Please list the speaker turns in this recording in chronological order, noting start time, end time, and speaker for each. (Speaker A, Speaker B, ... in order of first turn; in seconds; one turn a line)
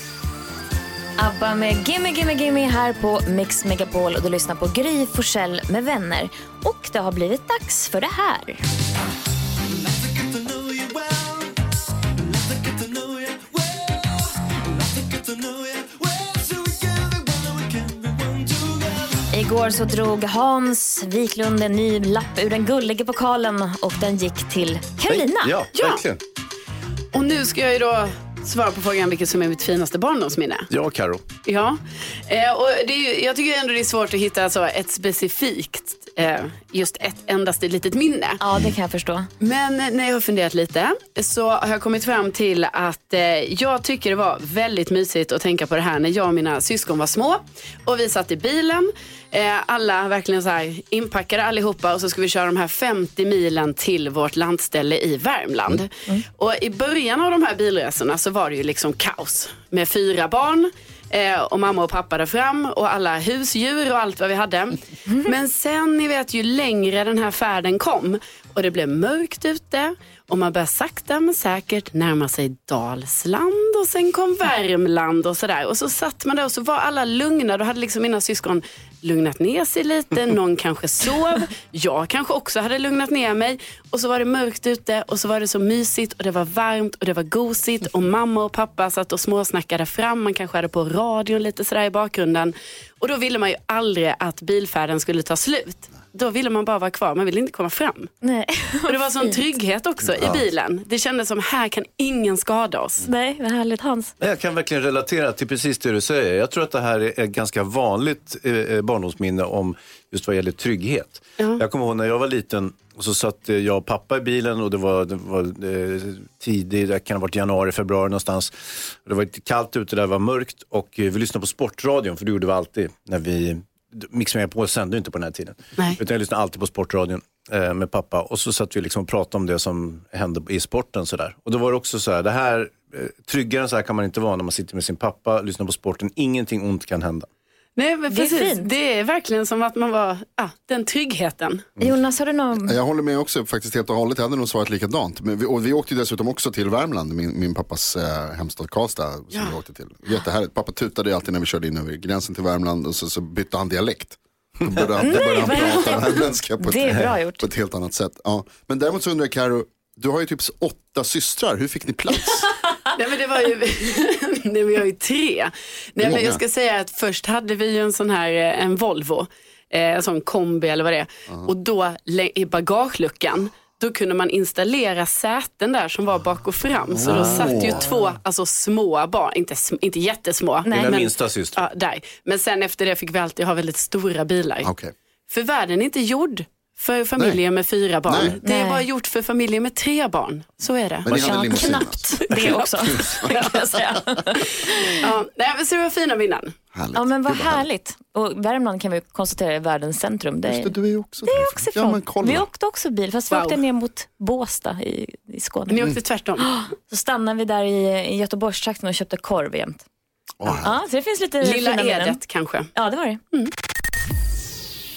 Speaker A: 1.2-8.6
Speaker A: 19.3-25.5
Speaker B: 25.1-26.2
Speaker C: 25.8-26.0
Speaker C: 27.1-30.7
Speaker B: 30.7-31.2
Speaker C: 31.4-38.4
Speaker A: 38.4-39.3
Speaker C: 39.4-98.1
Speaker A: 98.2-99.4
Speaker C: 98.9-103.0
Speaker A: 103.0-104.1
Speaker B: 104.2-118.5
Speaker B: 119.0-137.3
Speaker C: 137.8-141.7
Speaker A: 138.1-138.7
Speaker A: 141.8-142.8
Speaker D: 142.6-162.5
Speaker A: 155.0-157.5
Speaker C: 163.0-184.7
Speaker D: 166.0-166.4
Speaker D: 176.9-177.8
Speaker B: 177.0-177.9
Speaker A: 180.7-181.0
Speaker B: 180.7-181.6
Speaker D: 184.6-184.9
Speaker C: 185.3-191.6
Speaker D: 188.1-188.4
Speaker A: 188.4-188.8
Speaker D: 191.0-194.2
Speaker A: 191.1-195.0
Speaker C: 192.3-192.6
Speaker C: 195.0-196.6
Speaker D: 196.7-197.7
Speaker A: 196.9-205.9
Speaker D: 200.4-202.5
Speaker C: 203.3-203.6
Speaker C: 205.7-206.5
Speaker A: 206.4-209.8
Speaker D: 210.4-210.8
Speaker A: 210.6-212.2
Speaker C: 211.4-212.7
Speaker A: 212.8-213.2